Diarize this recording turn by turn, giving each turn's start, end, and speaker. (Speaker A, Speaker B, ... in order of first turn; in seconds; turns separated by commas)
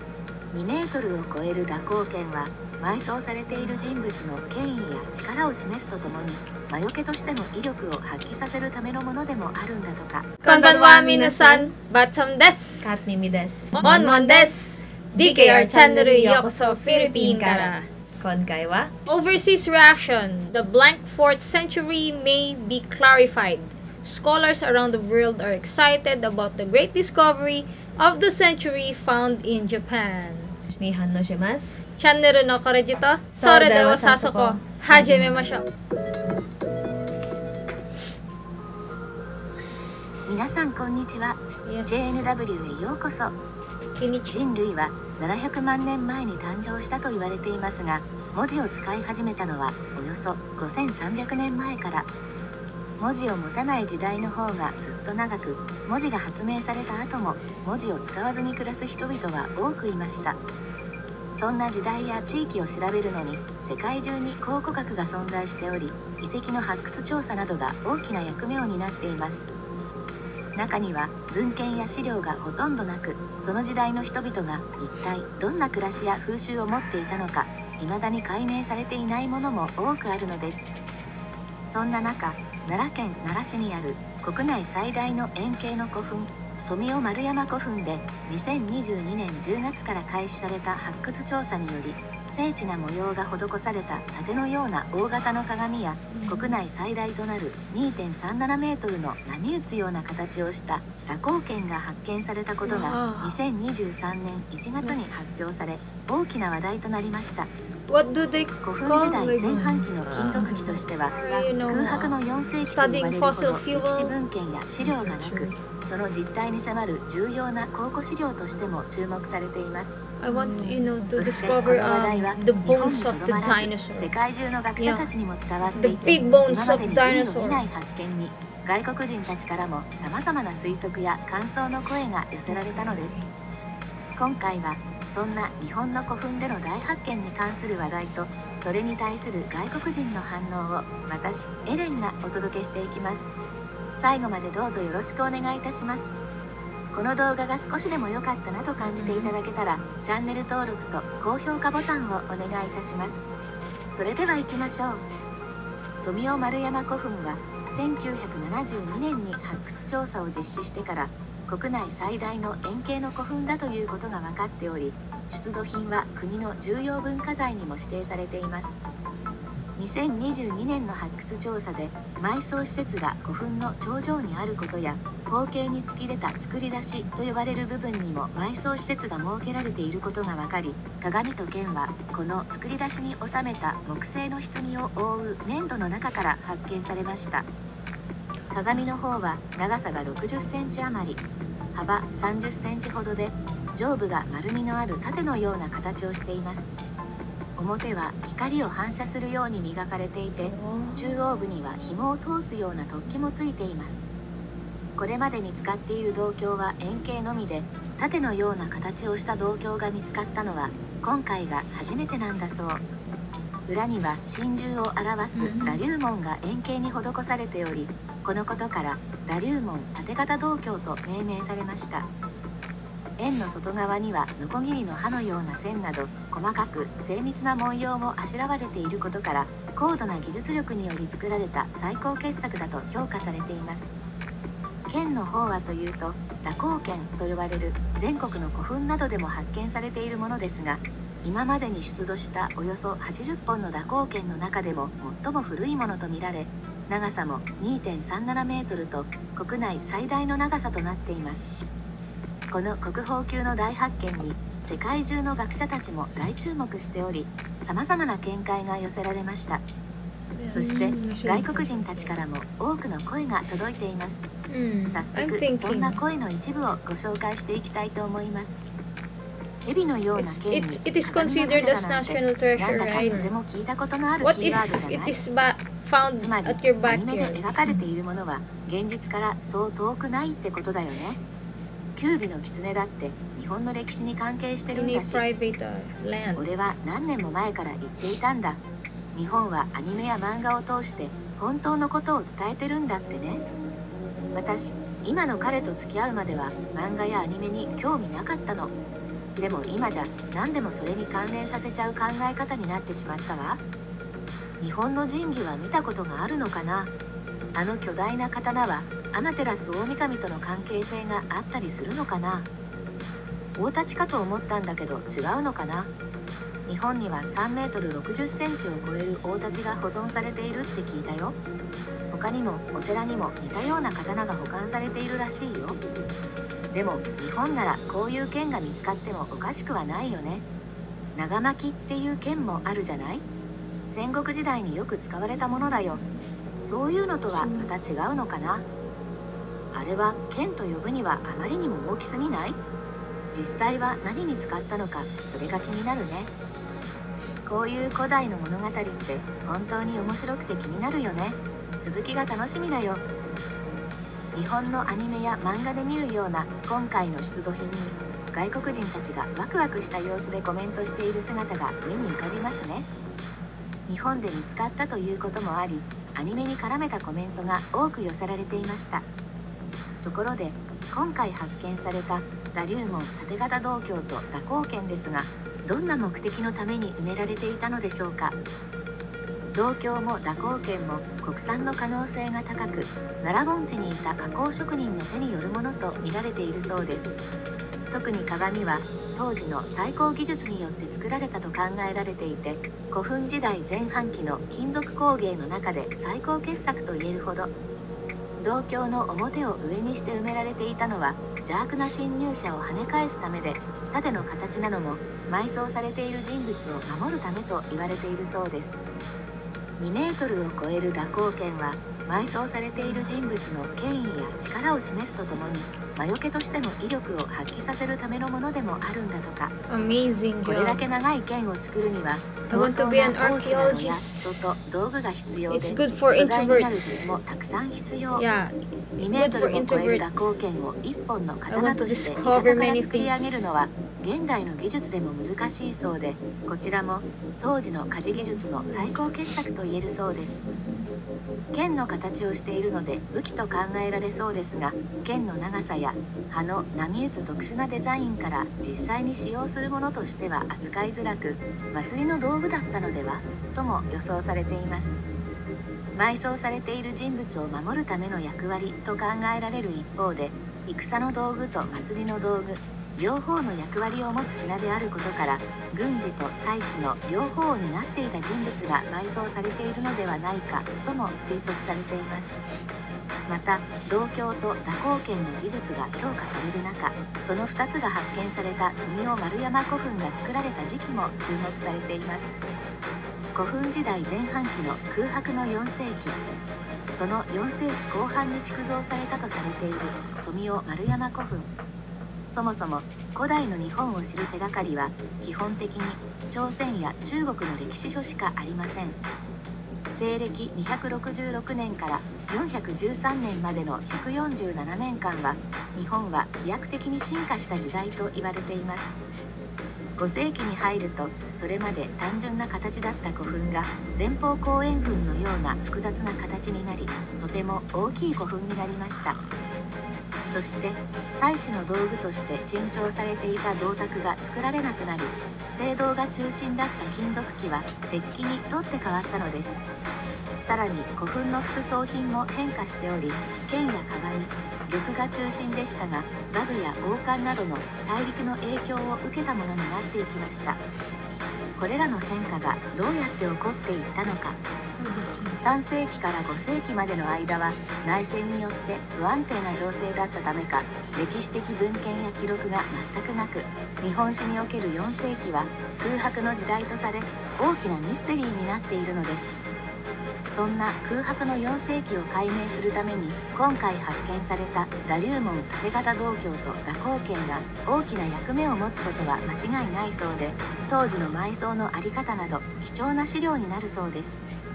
Speaker A: 0.5-10.3, Speaker B: 10.4-11.7, Speaker C: 10.4-13.0, Speaker B: 12.8-14.6, Speaker C: 13.7-17.9, Speaker B: 15.1-19.1, Speaker C: 19.1-30.5, Speaker B: 30.7-31.8, Speaker C: 32.0-35.6, Speaker B: 33.3-35.6, Speaker A: 40.3-43.3, Speaker C: 41.6-42.2, Speaker C: 43.9-44.5, Speaker A: 44.3-52.1, Speaker A: 53.0-60.4, Speaker A: 61.3-69.5, Speaker A: 70.5-80.7, Speaker A: 81.7-107.5, Speaker C: 96.1-96.4, Speaker C: 102.6-103.3, Speaker C: 107.9-114.1, Speaker A: 108.6-120.0, Speaker B: 109.5-110.8, Speaker B: 114.8-115.7, Speaker C: 120.2-124.1, Speaker B: 120.2-120.9, Speaker A: 121.0-133.2, Speaker C: 124.8-125.1, Speaker B: 125.7-126.3, Speaker C: 125.7-127.6, Speaker B: 132.5-133.3, Speaker A: 134.2-143.3, Speaker A: 144.0-146.1, Speaker A: 146.9-153.2, Speaker B: 148.8-149.3, Speaker A: 153.9-155.1, Speaker A: 156.0-168.8, Speaker A: 169.8-187.5, Speaker A: 188.5-191.2, Speaker A: 191.7-196.7, Speaker A: 197.6-204.0, Speaker C: 200.4-201.0, Speaker A: 204.9-212.8, Speaker A: 213.7-222.1, Speaker C: 215.3-215.8, Speaker A: 223.2-233.9, Speaker A: 234.9-251.5, Speaker A: 252.5-259.6, Speaker B: 260.3-262.3, Speaker C: 260.5-261.0, Speaker A: 260.5-264.2, Speaker C: 264.5-266.0, Speaker A: 264.9-268.6, Speaker A: 269.6-275.2, Speaker C: 270.1-273.2, Speaker C: 274.2-277.5, Speaker A: 276.2-281.2, Speaker A: 281.9-285.2, Speaker C: 284.7-286.4, Speaker A: 286.3-288.6, Speaker A: 289.1-293.4, Speaker A: 294.3-298.7, Speaker A: 299.4-303.6, Speaker A: 304.6-306.9, Speaker A: 307.5-312.5, Speaker A: 313.6-315.9, Speaker A: 316.6-321.4, Speaker A: 322.1-325.8, Speaker A: 326.7-330.4, Speaker A: 331.1-333.2, Speaker A: 333.9-336.0, Speaker A: 336.6-338.6, Speaker A: 339.7-342.6, Speaker A: 343.3-346.3, Speaker A: 347.4-353.0, Speaker A: 354.3-362.9, Speaker A: 363.9-369.0, Speaker A: 370.0-378.4, Speaker A: 379.5-387.1, Speaker A: 387.9-397.5, Speaker A: 398.4-408.8, Speaker A: 409.8-419.5, Speaker C: 412.8-413.1, Speaker C: 419.7-420.8, Speaker A: 420.4-428.2, Speaker C: 422.5-424.6, Speaker C: 425.5-427.1, Speaker C: 428.1-430.1, Speaker A: 429.0-440.4, Speaker C: 431.5-433.5, Speaker A: 441.5-455.0, Speaker A: 455.9-472.4, Speaker A: 473.3-482.3, Speaker A: 483.3-486.2, Speaker A: 486.9-491.5, Speaker A: 492.3-499.0, Speaker A: 499.9-508.9, Speaker A: 510.0-519.2, Speaker A: 520.3-529.6, Speaker A: 530.4-540.6, Speaker A: 541.6-544.4, Speaker B: 544.8-545.5, Speaker A: 545.4-559.3, Speaker A: 560.3-574.2